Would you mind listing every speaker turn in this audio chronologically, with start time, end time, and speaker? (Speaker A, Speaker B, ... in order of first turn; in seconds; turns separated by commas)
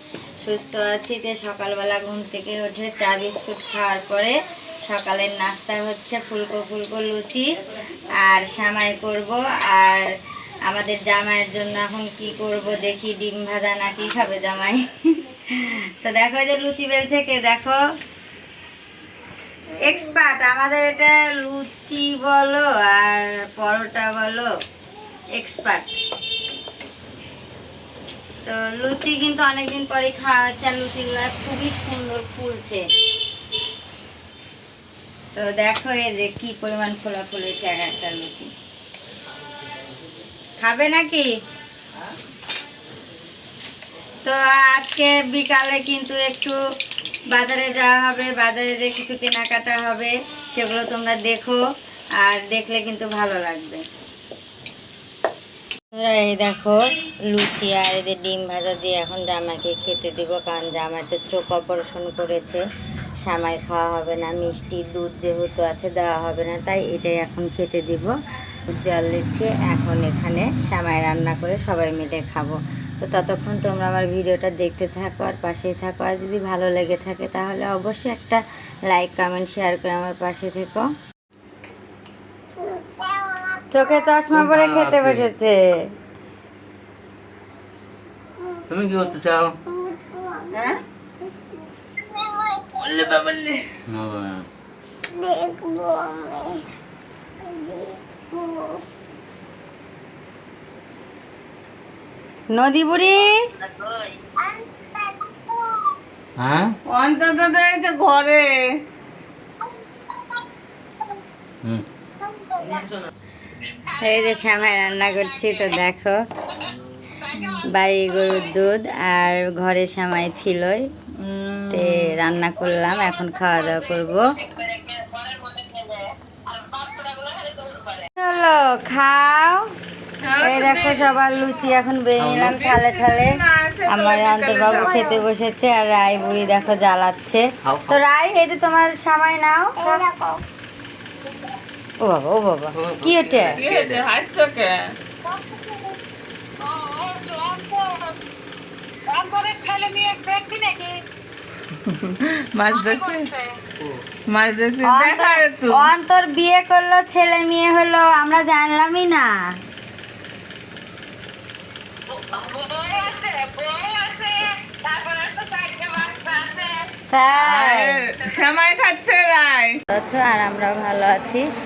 Speaker A: 0.4-4.4, Speaker A: 4.9-7.6, Speaker A: 8.1-10.1, Speaker A: 10.7-17.8, Speaker A: 19.8-24.5, Speaker A: 25.3-25.9, Speaker A: 28.4-32.9, Speaker A: 35.3-38.5, Speaker A: 40.6-41.3, Speaker A: 44.2-46.6, Speaker A: 47.3-51.6, Speaker A: 52.2-53.9, Speaker A: 55.9-62.6, Speaker A: 63.2-68.1, Speaker A: 68.7-80.9, Speaker B: 82.6-83.8, Speaker A: 83.7-85.7, Speaker C: 84.3-85.3, Speaker C: 88.7-89.6, Speaker B: 89.7-90.7, Speaker A: 90.5-90.8, Speaker B: 91.2-93.0, Speaker D: 93.3-93.6, Speaker C: 93.9-94.5, Speaker B: 95.1-96.7, Speaker B: 97.4-98.8, Speaker A: 102.5-103.5, Speaker B: 104.4-105.8, Speaker C: 106.4-106.8, Speaker D: 106.9-108.8, Speaker A: 113.8-116.2, Speaker A: 117.4-120.9, Speaker D: 121.2-122.1, Speaker A: 121.7-124.4, Speaker A: 128.2-129.7, Speaker D: 130.2-131.1, Speaker A: 130.4-140.0, Speaker C: 132.2-132.6, Speaker D: 132.4-135.1, Speaker B: 134.7-135.2, Speaker C: 137.7-138.0, Speaker B: 139.8-140.4, Speaker A: 142.0-143.6, Speaker C: 142.8-144.0, Speaker D: 143.6-145.0, Speaker D: 151.9-153.4, Speaker D: 154.3-155.9, Speaker A: 154.8-159.3, Speaker A: 167.1-168.1, Speaker D: 167.4-169.8, Speaker A: 169.9-171.5